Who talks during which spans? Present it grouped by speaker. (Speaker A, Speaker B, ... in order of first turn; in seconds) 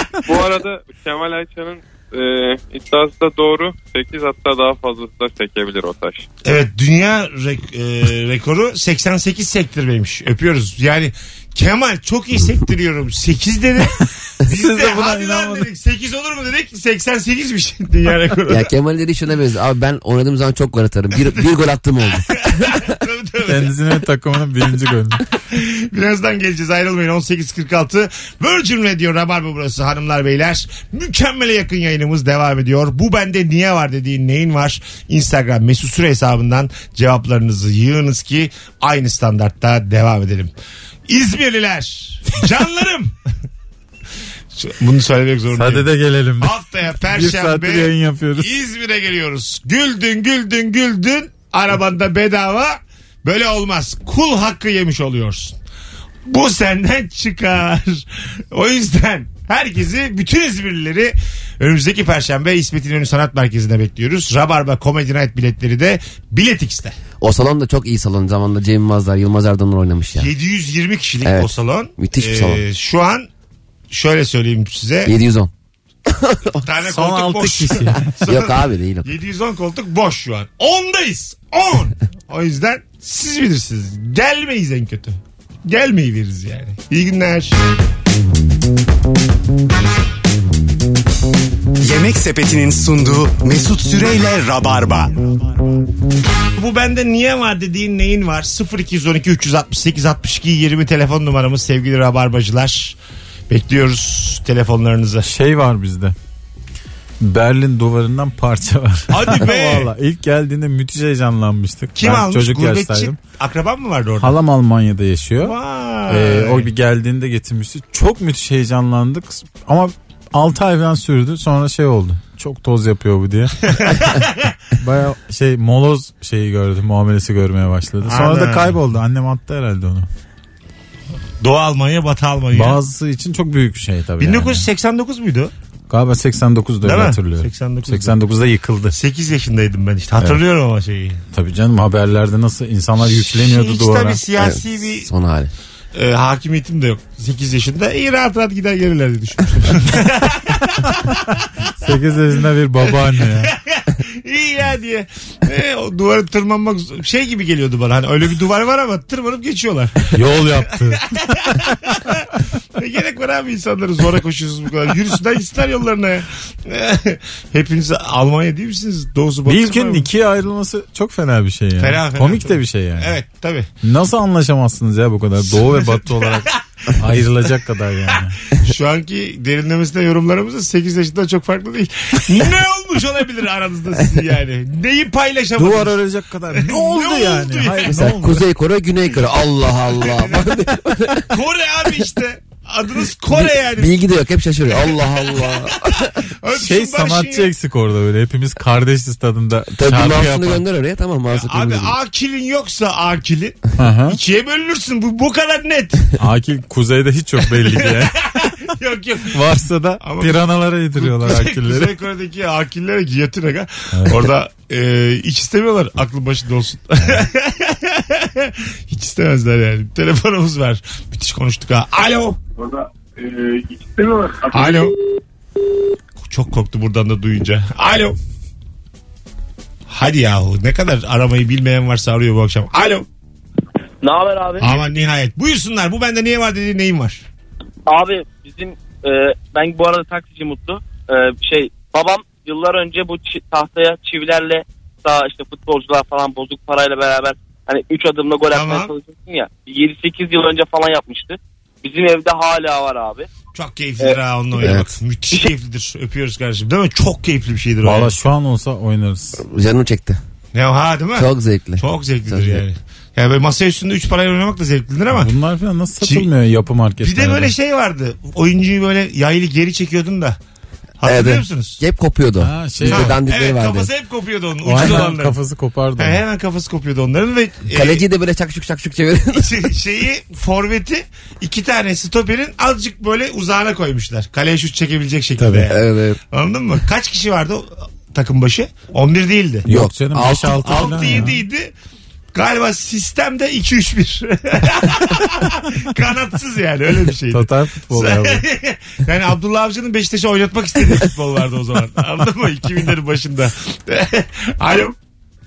Speaker A: 0.3-6.2
Speaker B: 6.4-18.7, 22.1-23.7, 25.5-40.5, 41.1-43.1, 44.5-45.9, 46.4-55.6, 56.2-67.0, 70.2-73.3, 73.9-75.1, 76.6-87.5, 96.5-103.0, 103.5-105.3, 109.1-109.9, 112.0-114.3, 115.4-116.7, 123.7-124.5, 128.0-128.8, 131.4-132.8, 134.2-135.5, 136.8-138.1, 138.9-141.2, 143.0-145.1, 145.9-151.2, 152.9-160.4, 160.9-170.1, 171.8-173.7, 175.4-176.9, 178.6-187.9, 189.9-190.5, 191.3-194.1, 194.7-197.5, 201.3-206.1, 207.6-209.4, 210.0-210.4, 210.9-222.4, 224.5-224.9, 226.2-228.2, 229.9-233.1, 234.6-237.2, 248.5-248.9, 253.5-258.1, 260.5-265.3, 266.0-266.3, 267.0-270.4, 271.0-271.8, 272.9-275.4, 276.0-278.0, 279.3-285.8, 286.3-291.7, 292.3-304.9
Speaker C: 14.4-15.7, 23.4-25.2, 45.5-48.5, 76.8-78.1, 105.3-106.1, 107.2-113.2, 114.2-115.5, 116.1-123.6, 124.8-130.1, 132.5-134.7, 135.9-139.0, 141.3-144.2, 151.8-153.5, 160.1-161.0, 169.4-173.2, 173.8-178.3, 185.6-188.4, 196.5-200.6, 203.8-204.2, 206.2-208.1, 209.3-211.9, 213.9-214.3, 257.8-259.4, 265.1-267.5, 272.4-273.2, 274.6-276.2, 285.4-285.7, 289.7-291.4, 297.3-298.4
Speaker D: 18.5-22.3, 67.2-70.3, 71.2-72.6, 75.0-75.5, 76.1-76.6, 78.2-79.1, 144.3-145.5, 187.9-191.3, 193.3-196.2, 199.7-201.9, 254.6-255.0, 259.4-260.2, 261.1-262.6, 271.0-273.9, 277.7-279.7, 285.7-286.2, 289.7-291.3
Speaker E: 91.8-95.1
Speaker F: 234.0-234.7, 237.9-253.3